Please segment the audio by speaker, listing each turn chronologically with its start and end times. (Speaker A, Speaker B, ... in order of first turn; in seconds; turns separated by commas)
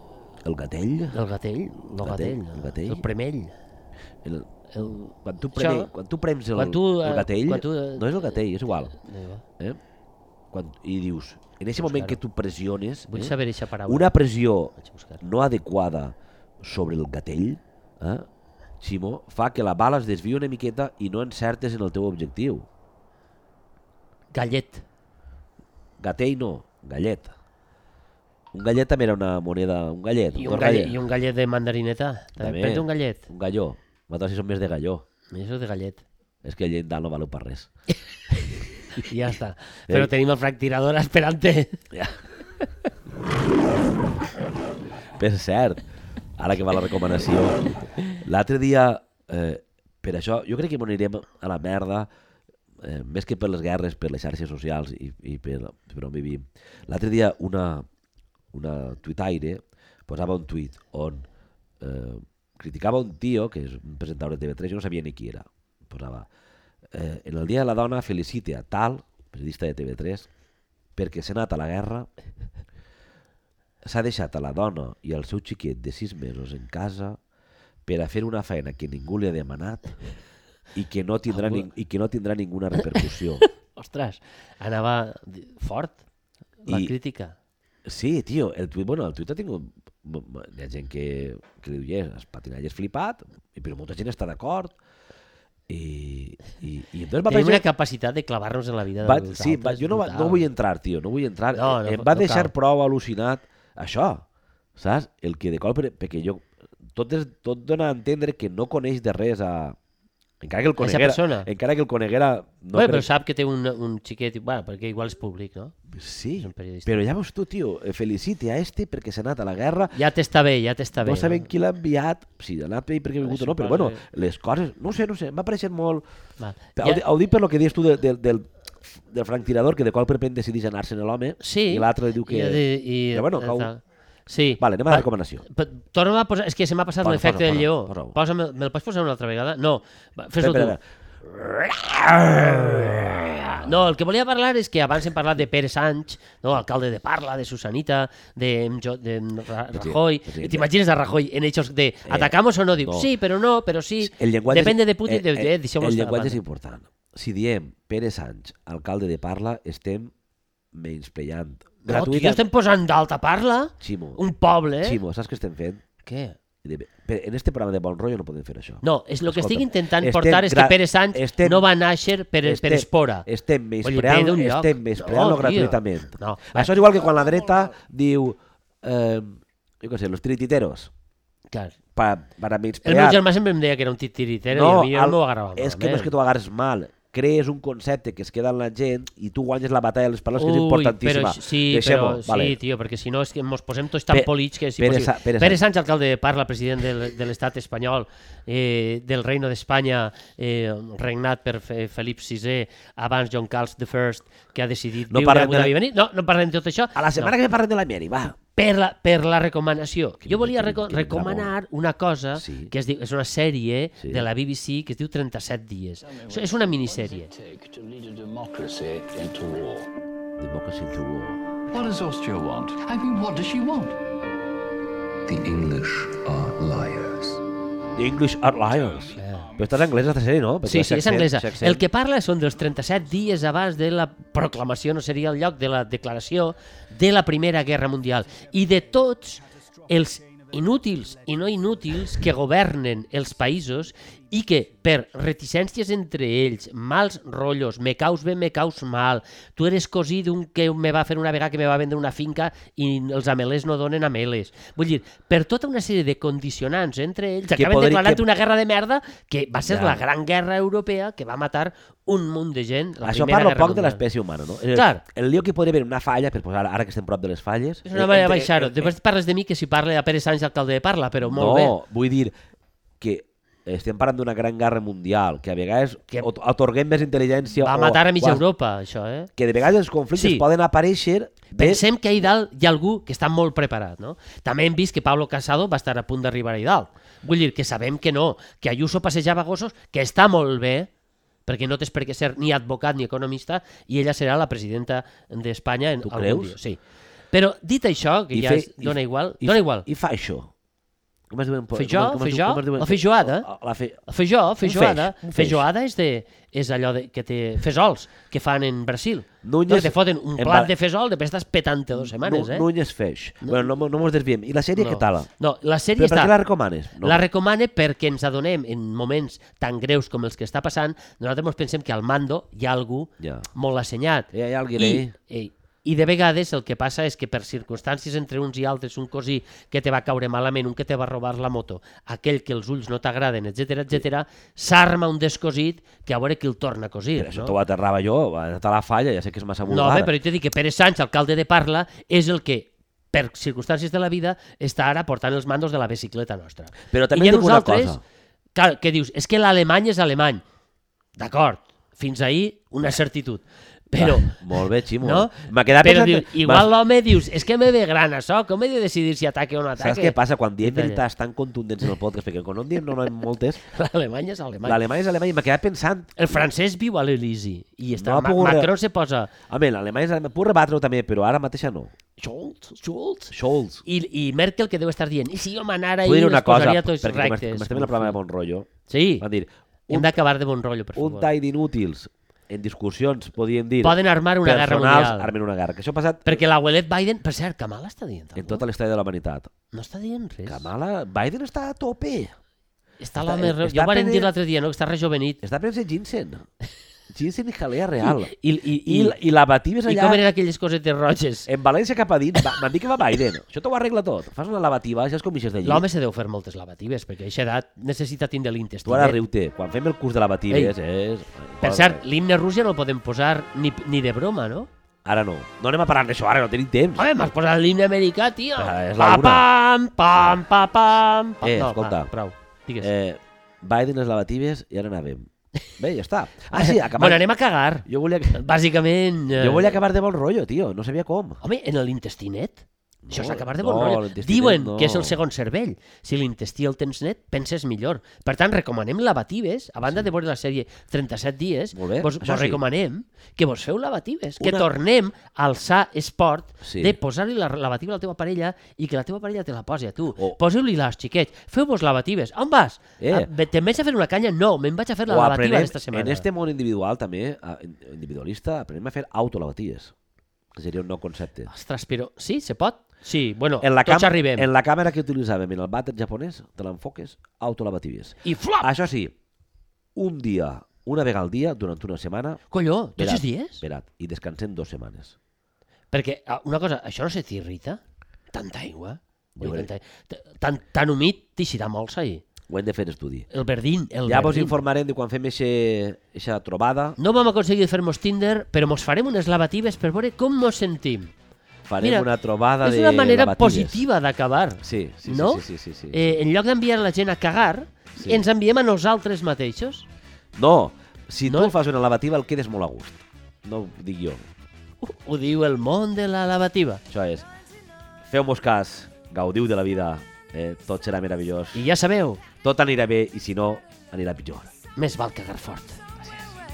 Speaker A: 0.4-1.2, Speaker B: 1.1-3.5, Speaker A: 2.0-3.0, Speaker A: 4.2-4.5, Speaker B: 4.7-5.9, Speaker A: 5.1-8.9, Speaker B: 6.5-8.4, Speaker B: 9.0-9.4, Speaker A: 10.5-13.3, Speaker B: 11.8-12.2, Speaker B: 13.1-14.1, Speaker A: 13.9-18.3, Speaker B: 14.8-15.2, Speaker A: 18.8-22.7, Speaker B: 24.3-24.8, Speaker A: 26.0-27.3, Speaker A: 28.5-31.0, Speaker B: 30.3-33.3, Speaker A: 32.4-35.0, Speaker B: 35.3-36.0, Speaker A: 36.4-37.7, Speaker B: 39.0-41.8, Speaker A: 45.2-45.8, Speaker A: 46.4-52.1, Speaker A: 52.8-57.9, Speaker A: 58.5-61.3, Speaker A: 61.8-66.3, Speaker A: 66.9-70.3, Speaker A: 71.0-72.1, Speaker A: 73.8-77.2, Speaker A: 77.8-80.0, Speaker A: 80.7-83.4, Speaker B: 81.3-81.7, Speaker B: 82.9-86.0, Speaker B: 86.6-87.3, Speaker A: 86.7-86.9, Speaker A: 87.8-94.7, Speaker A: 95.7-97.6, Speaker B: 97.3-100.5, Speaker A: 99.0-104.2, Speaker B: 101.5-102.5, Speaker A: 104.8-109.8, Speaker A: 110.4-113.1, Speaker B: 110.8-111.5, Speaker B: 112.7-115.7, Speaker A: 115.9-119.9, Speaker B: 116.4-117.0, Speaker B: 119.9-121.5, Speaker A: 121.0-126.0, Speaker B: 123.2-124.0, Speaker B: 126.4-127.0, Speaker A: 126.8-133.7, Speaker B: 131.4-140.8, Speaker A: 134.6-135.4, Speaker A: 137.0-138.2, Speaker A: 140.4-143.7, Speaker B: 143.6-156.4, Speaker A: 149.7-150.7, Speaker A: 152.1-153.1, Speaker A: 154.0-160.1, Speaker A: 160.7-162.4, Speaker B: 161.8-165.0, Speaker A: 163.8-164.2, Speaker A: 164.8-165.8, Speaker B: 166.1-166.3, Speaker A: 166.6-171.7, Speaker B: 168.8-173.3, Speaker A: 172.4-180.9, Speaker B: 173.8-176.7, Speaker A: 181.9-183.2, Speaker B: 182.8-186.1, Speaker A: 184.5-192.6, Speaker B: 190.3-207.3, Speaker A: 194.1-195.6, Speaker A: 205.1-205.7, Speaker A: 206.9-208.4, Speaker B: 208.6-217.3, Speaker A: 210.2-211.5, Speaker A: 212.3-212.7, Speaker A: 214.0-214.3, Speaker C: 216.2-219.9, Speaker A: 220.4-221.5, Speaker C: 221.7-224.0, Speaker C: 225.2-227.4, Speaker A: 227.9-231.8, Speaker B: 229.2-229.5, Speaker B: 230.6-264.0, Speaker A: 257.5-258.2, Speaker A: 259.6-260.0, Speaker A: 263.0-268.9, Speaker B: 264.7-265.0, Speaker B: 267.9-271.8, Speaker A: 271.2-272.3, Speaker A: 273.0-278.4, Speaker B: 277.6-279.3, Speaker A: 279.4-281.8, Speaker B: 280.1-280.4, Speaker B: 281.5-290.9, Speaker B: 291.4-296.8, Speaker A: 296.0-296.6, Speaker B: 297.3-299.9, Speaker A: 298.3-300.5, Speaker A: 301.3-304.0, Speaker B: 301.7-303.5, Speaker B: 304.1-312.7, Speaker A: 304.6-305.7, Speaker A: 309.4-310.7, Speaker A: 311.9-315.3, Speaker B: 314.8-316.3, Speaker A: 316.0-317.2, Speaker B: 317.0-337.6, Speaker A: 323.2-323.5, Speaker A: 324.3-325.1, Speaker A: 337.1-340.1, Speaker B: 339.7-348.0, Speaker A: 346.9-348.0, Speaker B: 348.5-350.4, Speaker B: 351.2-361.0, Speaker A: 353.9-356.7, Speaker A: 359.8-363.6, Speaker B: 363.6-364.8, Speaker A: 364.6-366.5, Speaker B: 366.2-369.3, Speaker A: 368.0-368.7, Speaker A: 369.5-371.9, Speaker B: 372.2-373.3, Speaker A: 373.3-373.8, Speaker B: 373.9-378.2, Speaker A: 376.0-380.2, Speaker B: 378.9-379.2, Speaker B: 379.9-381.3, Speaker A: 380.9-386.4, Speaker B: 383.8-385.3, Speaker B: 386.2-388.6, Speaker A: 388.4-389.5, Speaker B: 389.7-390.7, Speaker A: 390.4-392.3, Speaker B: 393.0-395.4, Speaker A: 393.2-394.3, Speaker A: 395.4-396.4, Speaker A: 397.1-400.2, Speaker B: 398.0-399.1, Speaker B: 399.9-401.5, Speaker A: 401.5-405.9, Speaker B: 405.6-409.2, Speaker A: 408.8-412.0, Speaker B: 411.6-414.7, Speaker A: 415.0-417.1, Speaker B: 417.0-422.9, Speaker A: 418.6-419.5, Speaker A: 421.4-422.1, Speaker A: 422.8-427.2, Speaker B: 426.5-429.8, Speaker A: 427.9-428.4, Speaker A: 429.3-431.4, Speaker B: 431.4-456.2, Speaker A: 433.0-435.2, Speaker A: 441.7-442.6, Speaker A: 444.4-444.7, Speaker A: 446.6-447.0, Speaker A: 453.0-453.3, Speaker A: 455.1-459.9, Speaker A: 460.5-461.5, Speaker B: 461.5-464.5, Speaker A: 463.6-469.1, Speaker B: 468.2-468.7, Speaker A: 469.9-472.4, Speaker B: 472.5-473.6, Speaker A: 473.0-475.1, Speaker B: 475.9-477.8, Speaker B: 478.3-482.2, Speaker A: 479.4-479.7, Speaker A: 482.5-483.3, Speaker B: 483.3-484.6, Speaker A: 484.0-487.0, Speaker B: 487.0-491.1, Speaker A: 491.7-493.8, Speaker B: 491.8-492.1, Speaker B: 492.6-499.9, Speaker A: 494.6-496.2, Speaker A: 497.9-498.2, Speaker A: 500.3-504.2, Speaker B: 501.2-501.5, Speaker B: 504.8-506.8, Speaker A: 506.9-507.3, Speaker A: 508.1-511.6, Speaker B: 511.5-512.2, Speaker A: 512.4-514.5, Speaker B: 514.8-515.8, Speaker A: 516.0-516.3